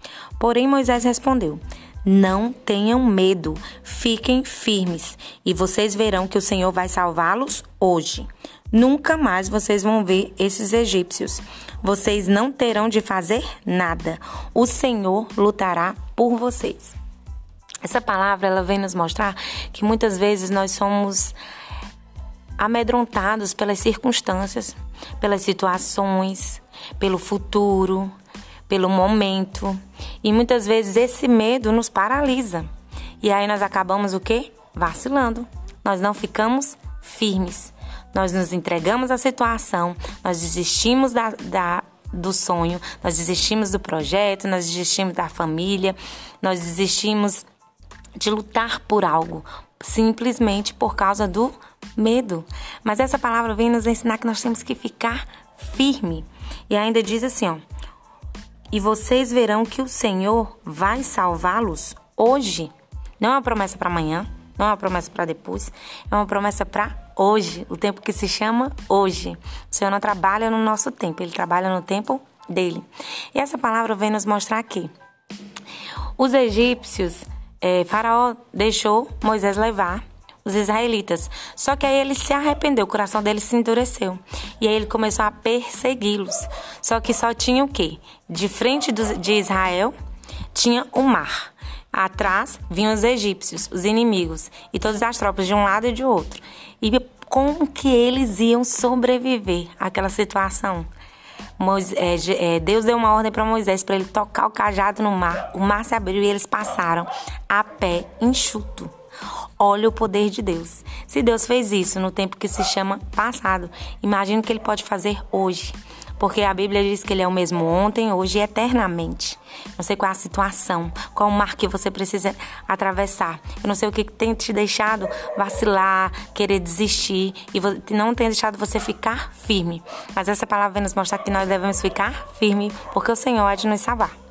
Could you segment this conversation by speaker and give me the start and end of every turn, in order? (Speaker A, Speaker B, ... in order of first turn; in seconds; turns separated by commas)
Speaker A: 0.4-17.0, Speaker A: 17.8-21.4, Speaker A: 22.6-28.1, Speaker A: 28.7-32.7, Speaker A: 33.2-47.5, Speaker A: 48.2-57.6, Speaker A: 58.7-74.9, Speaker A: 76.2-89.9, Speaker A: 90.5-100.9, Speaker A: 101.6-108.9, Speaker A: 109.6-134.1